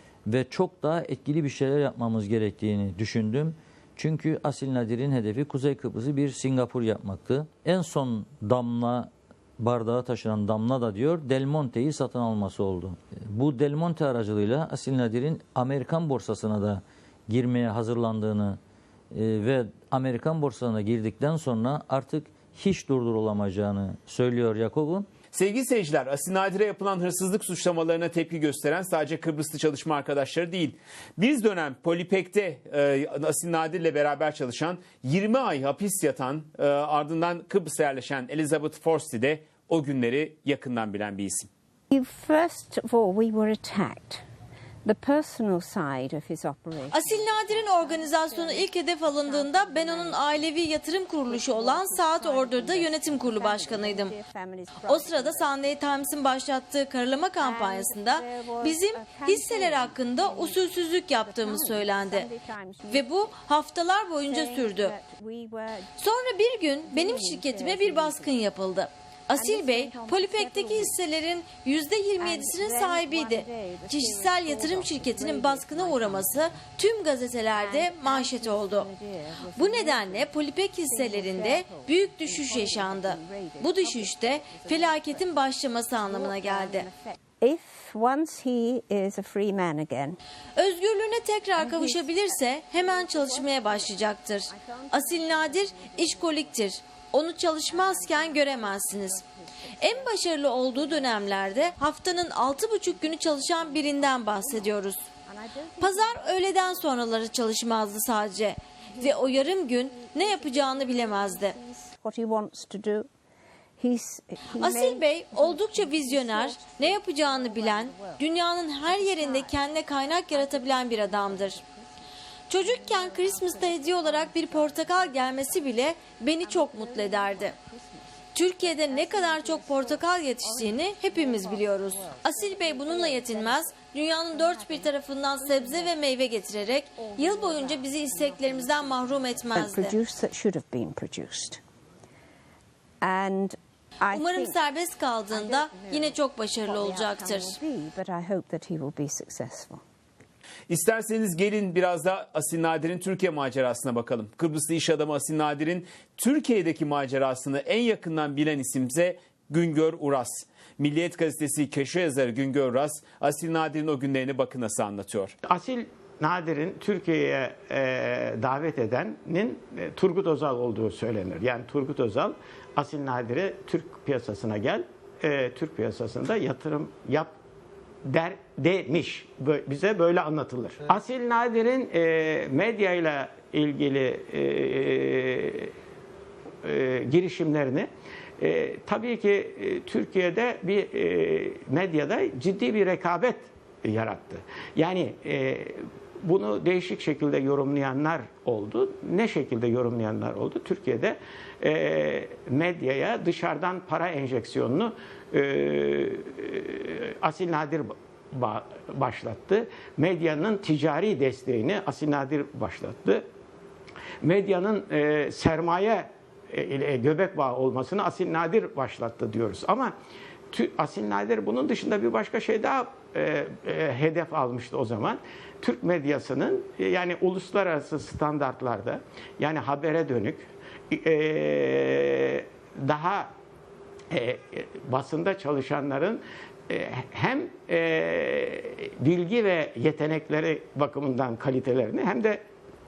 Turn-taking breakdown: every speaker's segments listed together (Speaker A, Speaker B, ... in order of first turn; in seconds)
Speaker A: 0.3-18.6, 19.1-25.1
Speaker B: 25.3-41.5, 150.7-165.3
Speaker C: 41.9-44.2, 44.8-50.6, 51.2-56.1, 57.4-63.4, 64.2-66.0, 66.6-68.5, 69.3-71.0, 72.2-76.8, 77.5-90.2, 91.5-96.7, 97.4-108.1, 108.8-113.1, 113.8-136.2, 136.9-141.6, 143.0-144.6, 145.3-149.8
Speaker D: 46.9-54.1, 54.9-62.3, 62.9-64.9, 66.0-78.9, 79.6-86.9, 90.6-99.2, 99.8-105.1, 105.8-111.6, 114.6-121.6, 122.5-127.6, 128.3-140.0, 144.1-147.6
Speaker E: 165.4-177.3, 178.0-185.7, 186.6-213.3, 214.2-219.9, 220.5-233.3, 234.1-242.4